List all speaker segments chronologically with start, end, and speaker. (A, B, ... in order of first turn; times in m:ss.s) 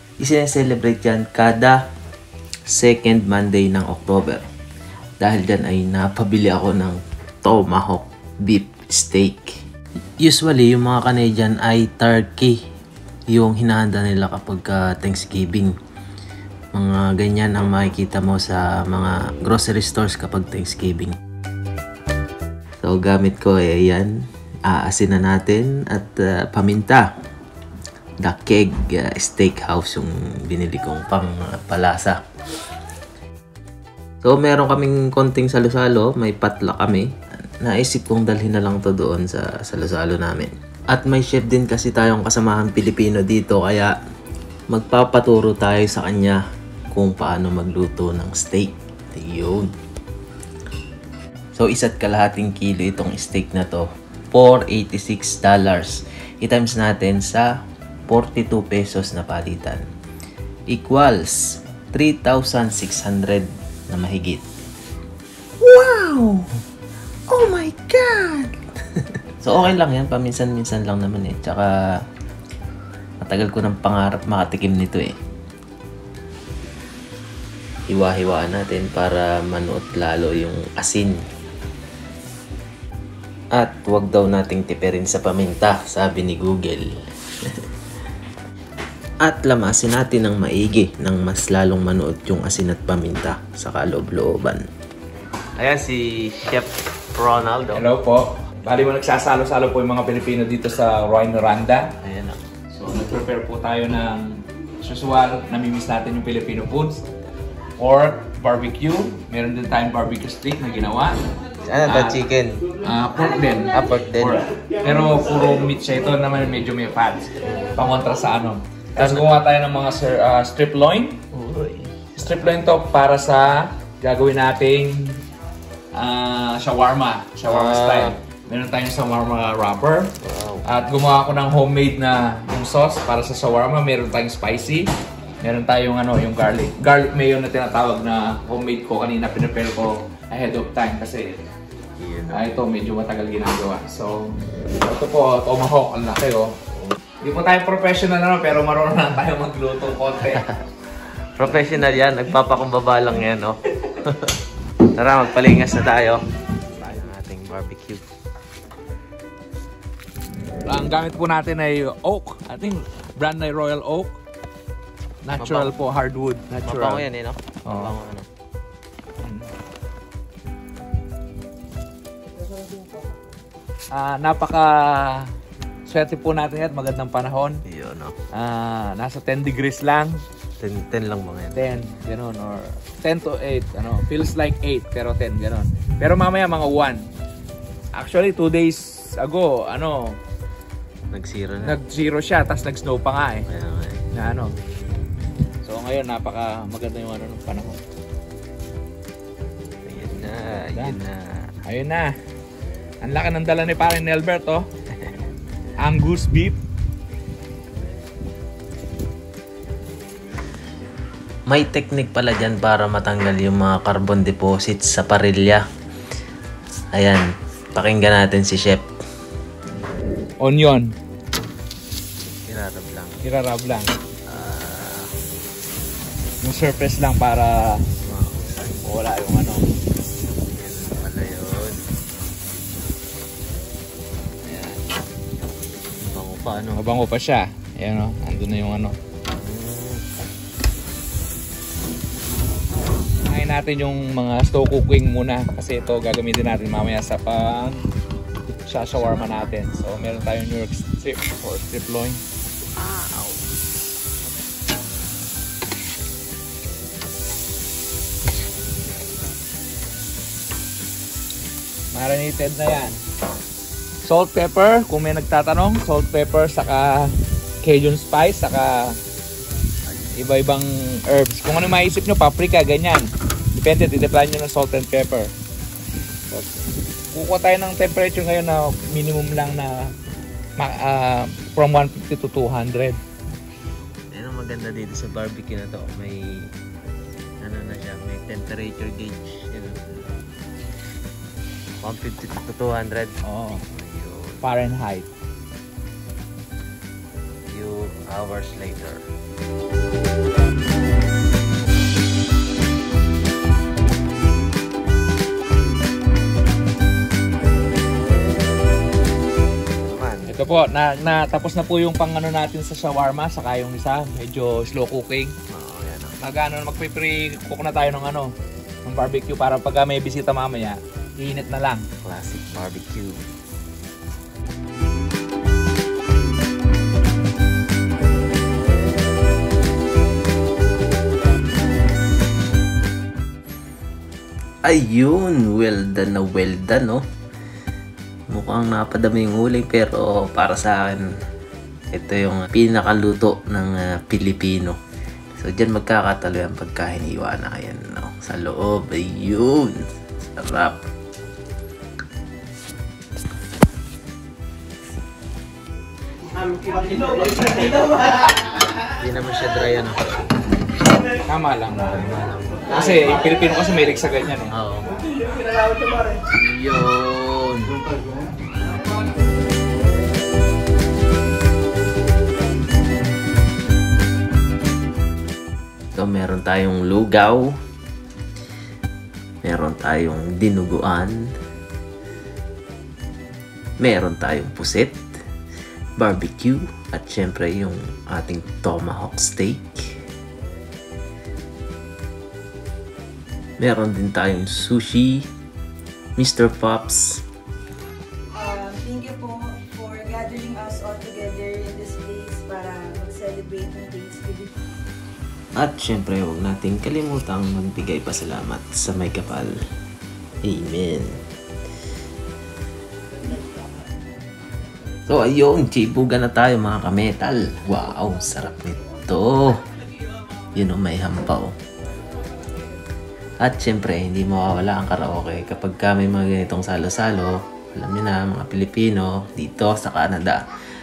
0:00.2-0:01.8 A
0:02.7-0:04.4 A
0:05.2-0:09.6 A
0:10.2-0:12.6 A
0:13.3-0:15.7 A
0:16.7-0:21.2 A
0:22.8-0:27.1 A
0:28.2-0:32.2 A
0:34.2-0:43.9 A
0:44.7-0:46.4 A
0:46.9-0:49.7 A
0:51.5-0:57.5 A
0:58.1-0:59.8 A
1:00.7-1:04.4 A
1:05.6-1:06.5 A
1:07.3-1:11.8 A
1:13.2-1:15.1 A
1:17.9-1:21.2 A
1:23.6-1:26.9 A
1:29.2-1:34.6 A
1:35.6-1:37.9 A
1:37.7-1:41.9 B
1:42.0-1:42.4 A
1:42.7-1:47.0 B
1:47.8-1:51.2 B
1:51.7-1:52.6 A
1:51.9-1:52.2 B
1:52.8-2:01.2 B
1:53.7-1:54.4 A
1:59.0-1:59.3 A
2:01.3-2:02.0 A
2:02.2-2:05.2 B
2:05.9-2:10.1 B
2:07.4-2:08.2 A
2:10.2-2:10.7 A
2:10.6-2:14.9 B
2:15.4-2:21.4 B
2:22.0-2:22.5 A
2:22.3-2:26.6 B
2:27.2-2:30.4 B
2:30.2-2:30.6 A
2:31.4-2:34.4 A
2:35.0-2:36.2 A
2:36.8-2:38.0 A
2:40.6-2:44.2 B
2:45.2-2:47.0 B
2:45.4-2:45.8 A
2:46.6-2:48.3 A
2:47.7-2:47.9 B
2:49.2-2:49.5 B
2:53.9-2:55.3 B
2:55.9-2:57.6 B
2:57.7-2:58.2 A
2:58.3-3:00.2 B
3:00.6-3:01.7 A
3:01.6-3:07.1 B
3:08.0-3:10.2 B
3:11.1-3:11.8 A
3:11.6-3:13.5 B
3:13.5-3:14.0 A
3:14.1-3:14.6 B
3:15.6-3:17.8 B
3:19.8-3:21.5 A
3:21.6-3:22.1 B
3:23.0-3:24.7 B
3:25.8-3:26.6 B
3:31.5-3:35.6 A
3:36.9-3:38.9 A
3:40.4-3:40.9 B
3:42.5-3:43.2 A
3:43.2-3:43.9 B
3:44.3-3:45.1 A
3:46.4-3:47.9 B
3:48.0-3:48.9 A
3:48.8-3:49.8 B
3:50.5-3:51.9 A
3:54.5-3:54.8 B
3:56.0-3:56.8 A
3:56.8-3:59.0 B
3:59.3-4:00.1 A
4:03.3-4:07.8 B
4:08.7-4:12.2 B
4:08.9-4:10.3 A
4:12.7-4:13.5 A
4:21.9-4:23.0 B
4:24.0-4:29.0 B
4:30.2-4:35.3 B
4:37.1-4:39.9 B
4:40.6-4:43.0 B
4:44.1-4:46.5 A
4:47.4-4:50.2 A
4:51.8-4:54.5 A
4:53.2-4:53.6 B
4:54.4-4:55.1 B
4:57.5-4:59.0 A
5:09.8-5:10.4 A
5:10.3-5:15.4 B
5:15.5-5:16.2 A
5:16.2-5:18.3 B
5:18.8-5:21.9 B
5:22.0-5:23.2 A
5:34.7-5:37.0 A
5:38.3-5:41.1 A
5:41.9-5:44.8 A
5:45.4-5:50.8 A
5:59.0-6:00.2 A
6:01.3-6:02.0 B
6:01.9-6:03.1 A
6:02.7-6:04.5 B
6:04.5-6:05.0 A
6:06.3-6:07.8 A
6:16.0-6:17.6 A
6:19.4-6:21.3 A
6:23.8-6:25.0 A
6:26.0-6:30.0 A
6:33.6-6:35.3 A
6:36.2-6:37.2 A
6:38.3-6:44.5 C
6:45.6-6:49.6 A
6:50.4-6:51.2 A
6:55.1-6:59.6 A
7:00.6-7:01.5 A
7:03.4-7:10.4 A